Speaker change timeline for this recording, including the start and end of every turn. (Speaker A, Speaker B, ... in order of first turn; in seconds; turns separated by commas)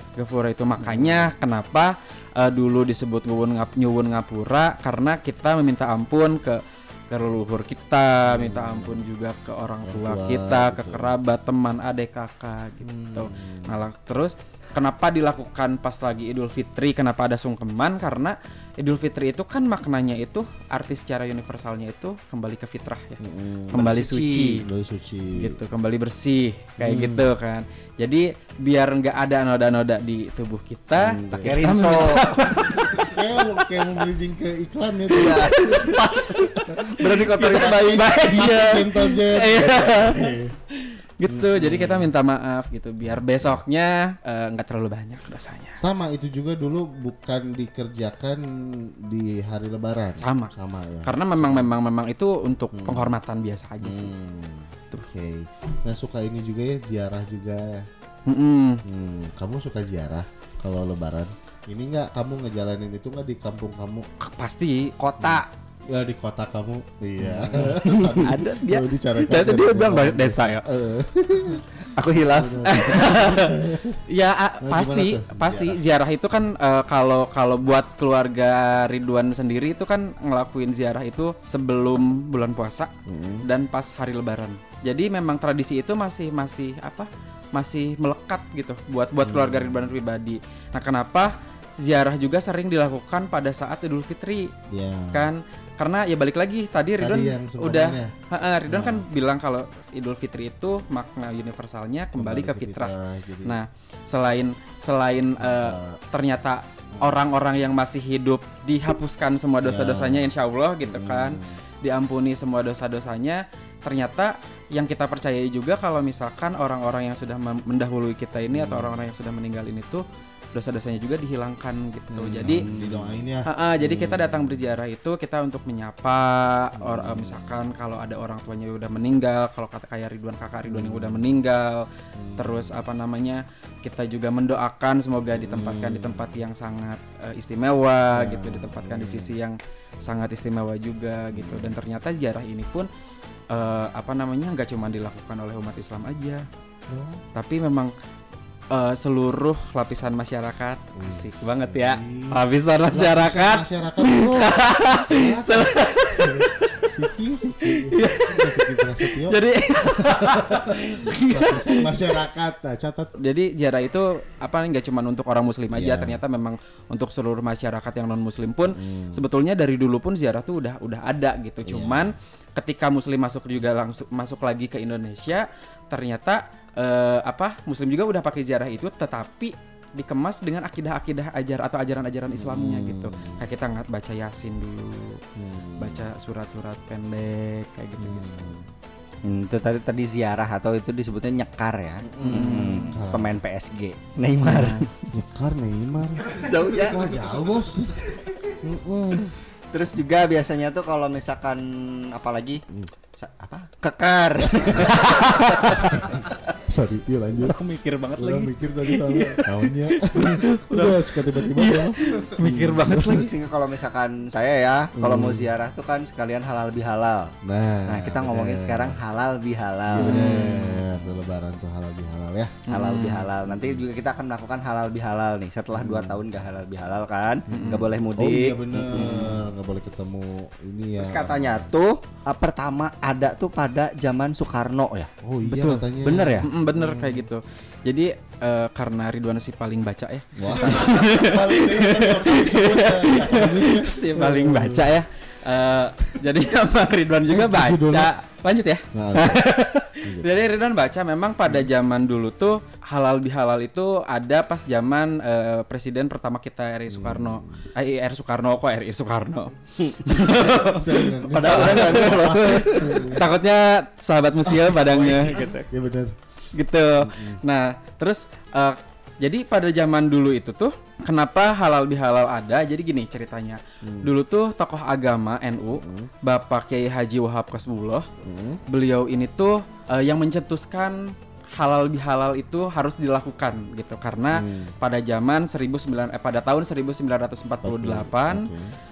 Speaker A: 0.2-24.6, Speaker B: 0.8-1.3, Speaker B: 8.2-9.0, Speaker B: 9.8-11.1, Speaker B: 12.8-13.8, Speaker B: 23.2-23.9, Speaker C: 23.7-24.6, Speaker B: 24.6-25.6, Speaker A: 25.3-33.8, Speaker B: 26.8-27.3, Speaker B: 30.9-31.6, Speaker C: 31.4-32.2, Speaker B: 32.5-36.0, Speaker C: 35.1-38.2, Speaker A: 35.2-45.8, Speaker B: 38.2-40.5, Speaker B: 41.3-42.1, Speaker B: 43.0-43.6, Speaker B: 45.8-51.7, Speaker A: 50.2-50.5, Speaker A: 51.0-54.1, Speaker B: 52.7-53.1, Speaker B: 53.8-57.9, Speaker A: 58.2-58.8, Speaker B: 58.9-64.1, Speaker A: 64.2-64.9, Speaker C: 65.0-65.5, Speaker B: 65.2-74.0, Speaker C: 67.6-68.4, Speaker A: 68.2-70.7, Speaker C: 71.9-73.1, Speaker A: 72.7-82.9, Speaker B: 74.6-75.8, Speaker B: 83.0-83.4, Speaker A: 83.4-94.5, Speaker B: 89.2-89.9, Speaker B: 94.7-95.3, Speaker A: 95.1-102.9, Speaker B: 97.0-98.1, Speaker B: 98.7-99.0, Speaker B: 102.2-103.6, Speaker A: 103.4-122.6, Speaker B: 105.4-106.0, Speaker B: 106.9-107.2, Speaker B: 109.6-110.3, Speaker B: 110.8-111.6, Speaker B: 118.5-119.0, Speaker B: 122.1-124.6, Speaker C: 122.5-123.0, Speaker A: 123.4-131.8, Speaker B: 126.8-127.6, Speaker B: 130.7-131.4, Speaker B: 132.2-132.8, Speaker A: 132.4-142.9, Speaker B: 135.3-136.4, Speaker B: 138.1-139.4, Speaker B: 141.3-141.8, Speaker A: 143.5-146.4, Speaker B: 146.9-147.2, Speaker A: 147.3-147.9, Speaker A: 148.7-156.9, Speaker B: 150.9-163.1, Speaker A: 157.7-162.1, Speaker A: 163.2-185.2, Speaker B: 165.7-166.2, Speaker B: 168.7-169.2, Speaker B: 171.7-172.1, Speaker B: 182.3-183.4, Speaker B: 185.3-186.1, Speaker A: 185.8-188.4, Speaker B: 188.0-188.7, Speaker C: 189.2-195.0, Speaker A: 192.1-192.8, Speaker B: 192.2-193.4, Speaker A: 194.4-194.9, Speaker B: 195.1-199.3, Speaker C: 196.3-197.1, Speaker C: 199.7-202.6, Speaker C: 203.2-206.0, Speaker B: 204.4-205.0, Speaker A: 204.8-205.9, Speaker B: 205.7-207.6, Speaker A: 207.4-213.3, Speaker B: 208.2-213.3, Speaker C: 212.9-217.3, Speaker B: 214.9-215.5, Speaker B: 217.4-219.0, Speaker C: 217.9-220.4, Speaker B: 219.9-222.7, Speaker A: 220.0-220.8, Speaker A: 222.7-223.3, Speaker C: 222.7-229.4, Speaker B: 223.4-223.8, Speaker B: 225.7-226.2, Speaker A: 227.5-227.9, Speaker B: 227.5-231.7, Speaker A: 228.9-229.3, Speaker C: 231.0-235.1, Speaker B: 235.2-237.3, Speaker A: 235.4-235.8, Speaker C: 236.0-236.5, Speaker A: 236.4-265.5, Speaker B: 240.4-245.0, Speaker B: 247.3-248.1, Speaker B: 248.9-249.4, Speaker B: 250.0-250.4, Speaker B: 256.9-257.7, Speaker C: 259.9-260.4, Speaker B: 260.6-263.3, Speaker C: 261.3-263.2, Speaker B: 264.6-266.1, Speaker C: 265.3-265.6, Speaker A: 266.5-278.1, Speaker B: 267.0-267.4, Speaker B: 273.8-274.1, Speaker B: 275.8-276.1, Speaker B: 278.2-278.6, Speaker A: 278.7-288.5, Speaker B: 284.3-284.7, Speaker B: 287.6-288.7